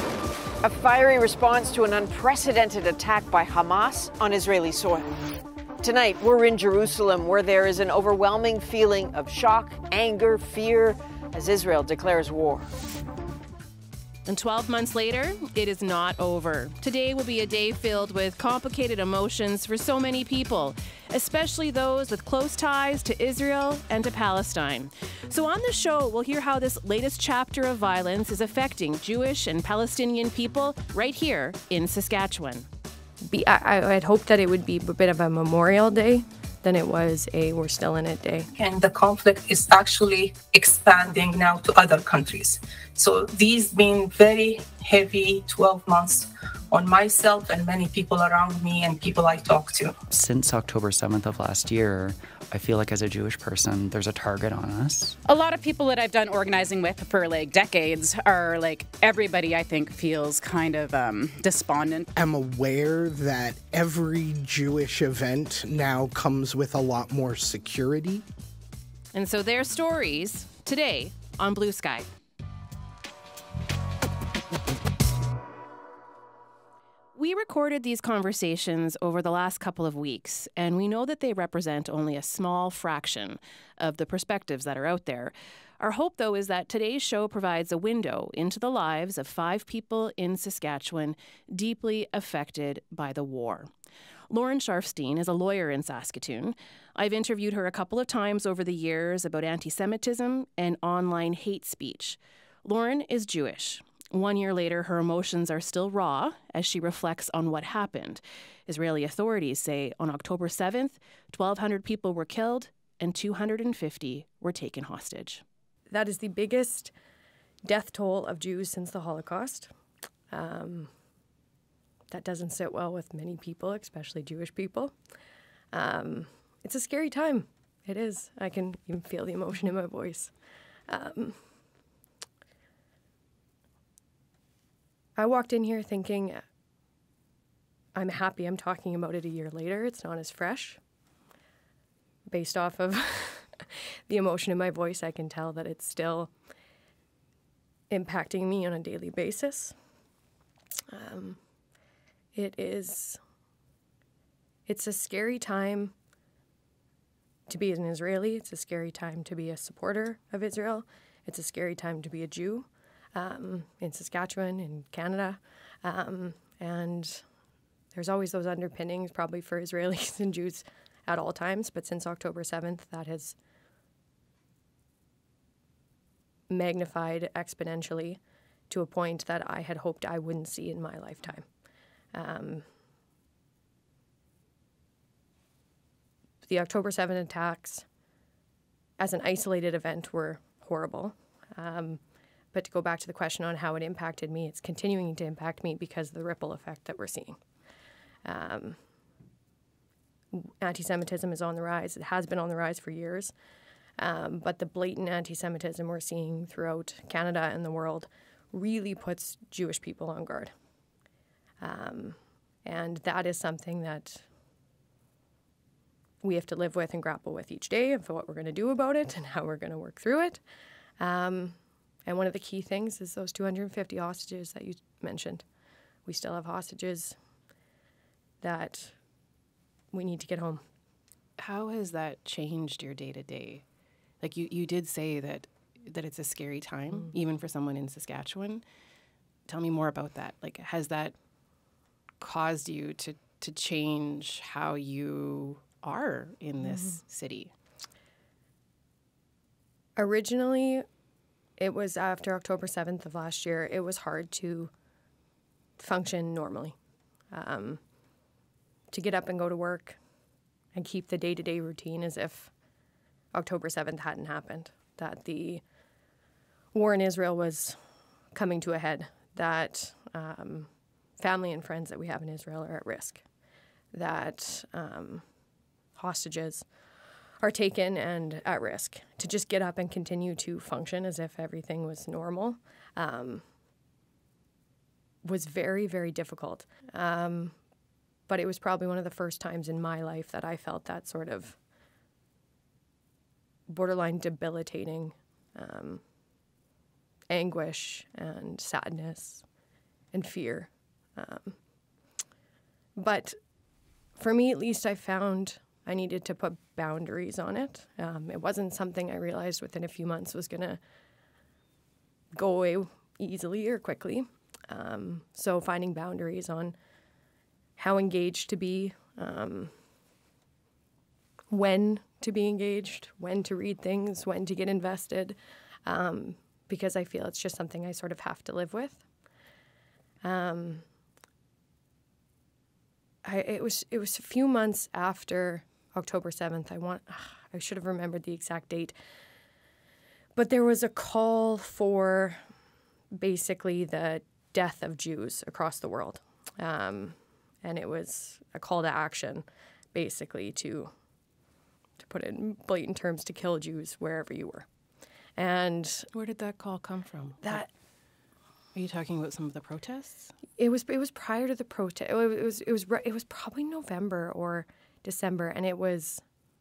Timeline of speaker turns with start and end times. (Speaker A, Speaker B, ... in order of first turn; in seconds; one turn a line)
Speaker A: 0.6-5.1
Speaker A: 5.8-12.7
Speaker B: 14.2-32.7
Speaker C: 33.2-38.5
Speaker D: 38.5-49.9
Speaker E: 50.1-55.2
Speaker F: 55.2-62.1
Speaker G: 62.1-68.2
Speaker B: 69.1-72.1
Speaker B: 77.1-93.7
Speaker B: 94.3-115.4
Speaker C: 115.9-116.9
Speaker C: 117.6-119.7
Speaker C: 120.3-120.9
Speaker C: 122.1-124.9
Speaker C: 125.7-130.3
Speaker C: 130.9-131.5
Speaker C: 135.2-136.4
Speaker C: 137.9-140.8
Speaker C: 142.3-146.3
Speaker C: 147.9-149.8
Speaker C: 150.9-151.4
Speaker C: 152.3-153.2
Speaker C: 154.7-155.9
Speaker C: 157.5-167.3
Speaker C: 167.9-173.4
Speaker C: 176.5-181.5
Speaker C: 182.1-182.7
Speaker C: 186.4-187.8
Speaker C: 189.0-197.4
Speaker C: 198.2-198.9
Speaker C: 200.3-203.3
Speaker C: 204.0-210.5
Speaker C: 211.6-214.2
Speaker C: 216.2-220.4
Speaker C: 221.0-225.4
Speaker C: 226.0-227.2
Speaker C: 228.4-228.9
Speaker C: 229.9-230.6
Speaker B: 231.4-233.6
Speaker B: 234.2-238.6
Speaker B: 239.5-241.1
Speaker B: 242.2-247.5
Speaker C: 246.6-246.9
Speaker C: 249.9-250.8
Speaker C: 251.6-254.7
Speaker C: 255.8-256.8
Speaker C: 257.3-257.9
Speaker C: 258.9-260.0
Speaker C: 260.7-262.5
Speaker C: 263.3-265.6
Speaker C: 266.7-267.8
Speaker C: 268.3-273.2
Speaker C: 273.9-275.3
Speaker C: 275.9-276.7
Speaker C: 277.4-283.5
Speaker C: 285.2-287.6
Speaker C: 288.3-291.6
Speaker C: 293.7-296.1
Speaker C: 297.3-299.5
Speaker C: 300.1-301.6
Speaker C: 303.0-303.4
Speaker C: 304.1-310.8
Speaker C: 312.3-316.8
Speaker C: 317.8-319.8
Speaker C: 321.5-329.1
Speaker C: 330.2-330.9
Speaker C: 333.2-338.9
Speaker C: 340.3-342.5
Speaker C: 343.1-350.9
Speaker C: 352.0-354.7
Speaker C: 355.3-356.1
Speaker B: 356.1-357.6
Speaker C: 357.4-357.7
Speaker B: 358.7-360.3
Speaker C: 360.6-366.2